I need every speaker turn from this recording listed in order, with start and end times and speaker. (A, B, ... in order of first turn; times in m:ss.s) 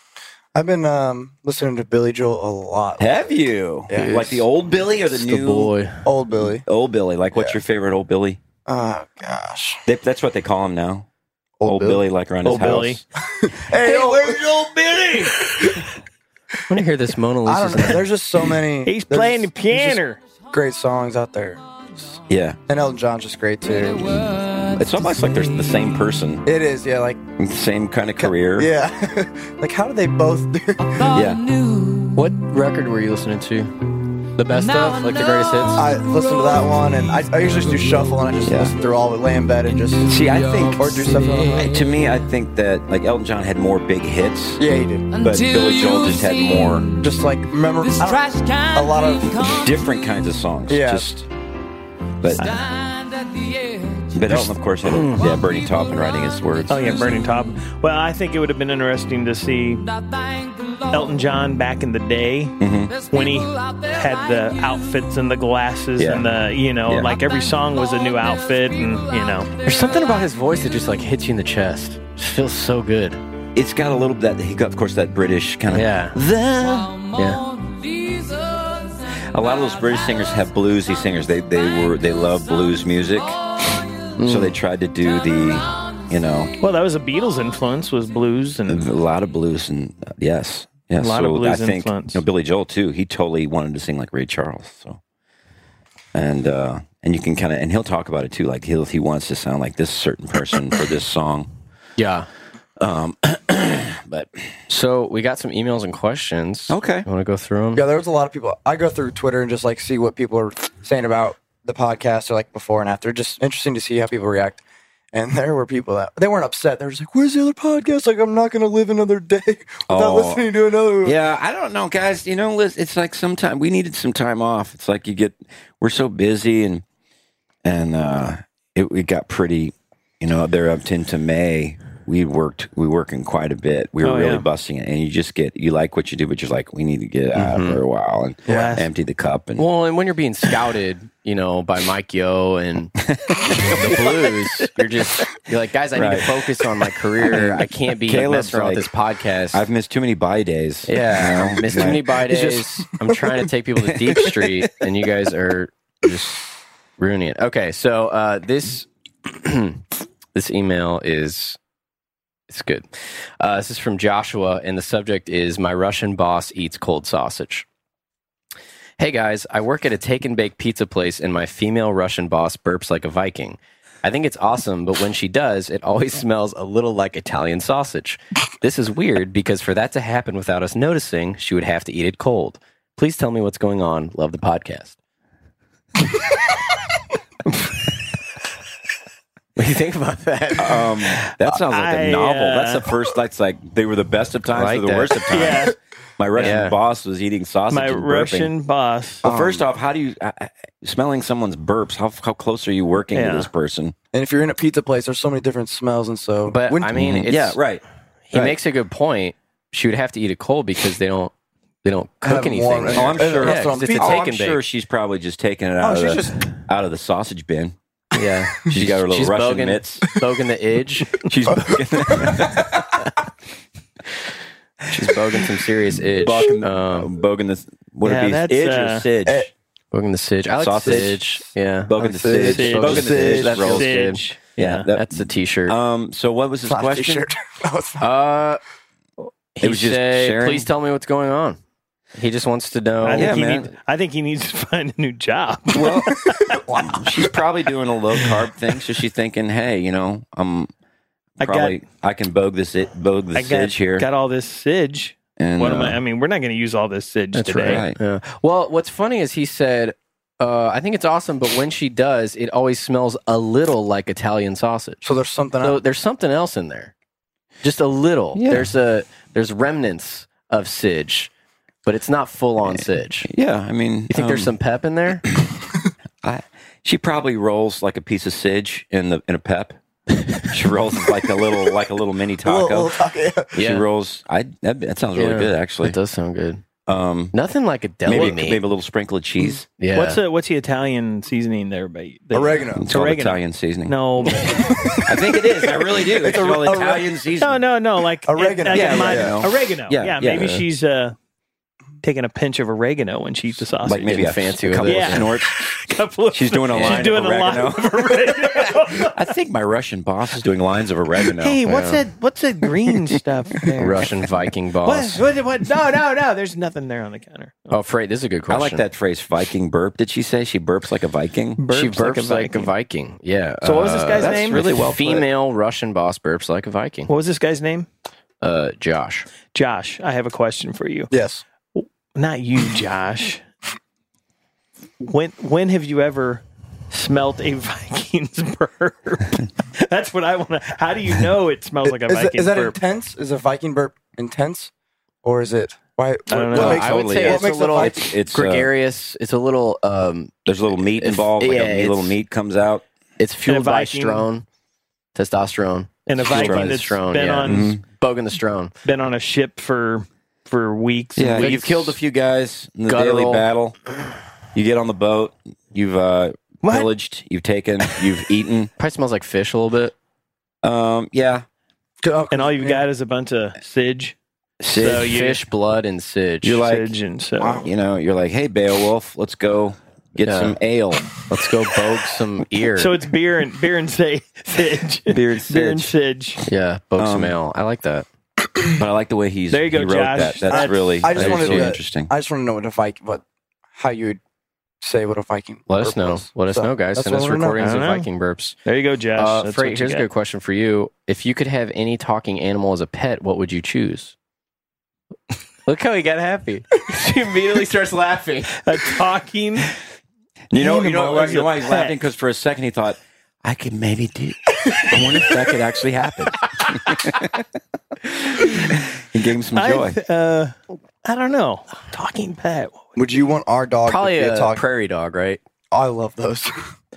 0:00.5-0:03.2 A
0:03.0-0:05.7 B
0:03.9-0:04.4 A
0:04.0-0:04.4 C
0:05.1-0:06.1 C
0:06.0-0:06.6 A
0:06.7-0:08.4 B
0:08.7-0:09.9 A
0:09.9-0:11.1 B
0:11.6-0:14.5 A
0:11.6-0:13.0 B
0:12.4-0:13.0 D
0:13.8-0:15.7 B
0:15.2-0:15.9 A
0:16.7-0:18.1 C
0:17.4-0:21.6 A
0:18.8-0:20.2 D
0:22.3-0:22.6 B
0:22.7-0:24.7 A
0:24.6-0:26.5 B
0:26.4-0:27.2 A
0:27.4-0:28.7 B
0:28.2-0:31.2 A
0:31.1-0:31.6 B
0:32.0-0:33.7 C
0:34.4-0:35.9 C
0:35.8-0:41.9 A
0:38.5-0:38.7 B
0:40.0-0:47.0 B
0:44.6-0:45.2 A
0:46.9-0:49.6 A
0:49.5-0:51.3 B
0:50.7-0:51.1 A
0:52.2-0:52.6 B
0:52.4-0:53.1 D
0:54.1-0:57.1 B
0:54.3-0:55.2 C
0:56.7-1:00.0 D
1:00.7-1:02.6 D
1:02.6-1:03.0 B
1:03.1-1:09.6 D
1:06.0-1:06.3 B
1:06.9-1:07.2 B
1:09.6-1:13.2 C
1:13.6-1:17.1 B
1:15.7-1:16.2 C
1:17.2-1:17.5 C
1:19.3-1:23.4 B
1:24.2-1:24.6 C
1:24.2-1:26.5 B
1:26.6-1:28.9 D
1:28.7-1:35.0 B
1:31.0-1:32.2 D
1:36.1-1:41.5 B
1:42.0-1:42.3 C
1:42.8-1:44.0 B
1:44.1-1:47.9 C
1:46.7-1:47.1 B
1:47.8-1:54.6 A
1:55.1-2:01.2 A
1:59.9-2:00.5 B
2:01.0-2:06.8 B
2:07.6-2:19.6 B
2:14.0-2:14.5 D
2:17.4-2:17.8 C
2:18.5-2:18.9 D
2:19.6-2:23.0 C
2:23.0-2:24.2 B
2:23.6-2:29.6 C
2:26.0-2:26.3 B
2:27.2-2:28.9 B
2:29.5-2:32.2 B
2:30.9-2:39.8 C
2:32.3-2:33.2 A
2:40.3-2:41.6 C
2:42.5-2:47.7 C
2:49.0-3:05.0 C
3:09.6-3:11.1 C
3:10.6-3:18.5 B
3:11.5-3:13.0 D
3:14.5-3:15.4 C
3:15.3-3:15.8 D
3:16.4-3:16.8 C
3:17.7-3:19.2 D
3:19.2-3:19.6 A
3:19.2-3:24.0 B
3:23.1-3:23.5 D
3:24.1-3:26.9 A
3:26.5-3:27.6 C
3:27.0-3:28.6 B
3:28.3-3:34.6 C
3:32.2-3:34.2 A
3:32.9-3:37.8 B
3:35.8-3:36.5 A
3:38.1-3:41.2 C
3:38.7-3:40.0 B
3:41.2-3:43.0 B
3:41.6-3:42.6 A
3:44.9-3:47.1 C
3:46.2-3:49.5 B
3:48.0-3:49.1 D
3:49.9-3:55.8 C
3:50.6-3:51.2 B
3:51.9-3:54.0 B
3:52.0-3:53.6 A
3:52.5-3:54.9 D
3:54.6-3:57.3 B
3:56.7-3:58.1 A
3:58.0-3:58.6 C
3:59.6-4:01.6 C
3:59.6-4:00.7 B
4:02.2-4:03.4 C
4:03.0-4:06.6 D
4:03.1-4:03.7 B
4:05.7-4:06.2 B
4:06.3-4:07.2 A
4:06.8-4:10.7 B
4:11.4-4:11.8 D
4:11.4-4:14.1 B
4:13.4-4:17.8 D
4:15.4-4:16.0 B
4:17.3-4:25.0 C
4:17.6-4:18.0 B
4:25.0-4:25.8 A
4:25.6-4:26.9 C
4:27.6-4:31.3 C
4:28.4-4:28.7 B
4:31.8-4:33.3 C
4:32.7-4:34.5 B
4:34.1-4:35.2 C
4:36.2-4:39.8 B
4:40.1-4:40.4 C
4:40.5-4:43.0 B
4:42.4-4:43.5 A
4:43.5-4:46.0 B
4:43.6-4:43.9 C
4:45.2-4:46.6 C
4:46.9-4:47.3 B
4:47.3-4:48.6 C
4:48.0-4:49.7 B
4:49.8-4:50.2 C
4:49.9-4:54.6 D
4:52.3-4:52.9 A
4:52.8-4:54.4 B
4:54.4-4:55.0 A
4:55.0-4:57.6 B
4:55.9-4:57.1 A
4:57.4-5:01.2 D
4:58.2-4:59.4 A
4:58.7-5:00.6 B
5:02.0-5:04.3 D
5:03.8-5:05.6 B
5:04.0-5:05.3 C
5:04.8-5:09.2 D
5:06.3-5:11.6 B
5:06.7-5:07.1 C
5:11.3-5:14.1 D
5:11.6-5:12.0 C
5:13.7-5:14.0 A
5:13.8-5:15.2 C
5:14.8-5:17.8 D
5:17.7-5:18.8 C
5:18.5-5:21.7 B
5:21.6-5:22.7 D
5:21.7-5:27.1 C
5:23.6-5:24.7 D
5:24.2-5:25.3 B
5:27.1-5:27.9 D
5:28.4-5:29.3 C
5:29.5-5:31.1 D
5:31.1-5:31.4 A
5:31.8-5:33.4 D
5:35.0-5:42.8 D
5:41.9-5:44.7 A
5:45.2-5:48.1 A
5:46.3-5:46.8 D
5:46.5-5:52.2 C
5:46.5-5:48.7 B
5:50.5-5:52.8 B
5:53.2-5:54.4 C
5:53.5-5:54.3 D
5:55.2-5:58.7 C
5:56.1-5:57.8 D
5:56.3-5:56.8 B
5:57.4-5:57.8 B
5:58.8-6:02.0 D
6:01.2-6:03.8 B
6:01.4-6:01.9 C
6:02.9-6:03.5 C
6:04.5-6:08.7 B
6:06.6-6:06.9 D
6:08.8-6:09.9 C
6:10.6-6:11.4 B
6:12.0-6:12.8 A
6:12.3-6:14.2 D
6:14.6-6:15.1 B
6:14.7-6:15.4 D
6:14.8-6:16.6 C
6:16.4-6:21.1 B
6:16.6-6:17.7 D
6:20.3-6:20.6 C
6:21.2-6:23.0 C
6:22.8-6:26.4 D
6:25.1-6:25.9 B
6:26.5-6:28.1 C
6:27.0-6:27.4 B
6:28.8-6:32.1 B
6:29.5-6:31.0 D
6:30.5-6:34.2 A
6:31.2-6:31.7 C
6:34.8-6:37.7 A
6:35.7-6:38.6 C
6:37.6-6:38.1 D
6:38.7-6:40.0 D
6:39.2-6:44.2 C
6:45.7-6:48.7 C
6:48.6-6:49.7 D
6:50.5-6:57.4 B
6:50.6-6:52.0 D
6:58.6-7:00.0 B
6:59.6-7:02.9 D
7:03.0-7:04.6 A
7:03.9-7:05.4 C
7:05.7-7:06.7 A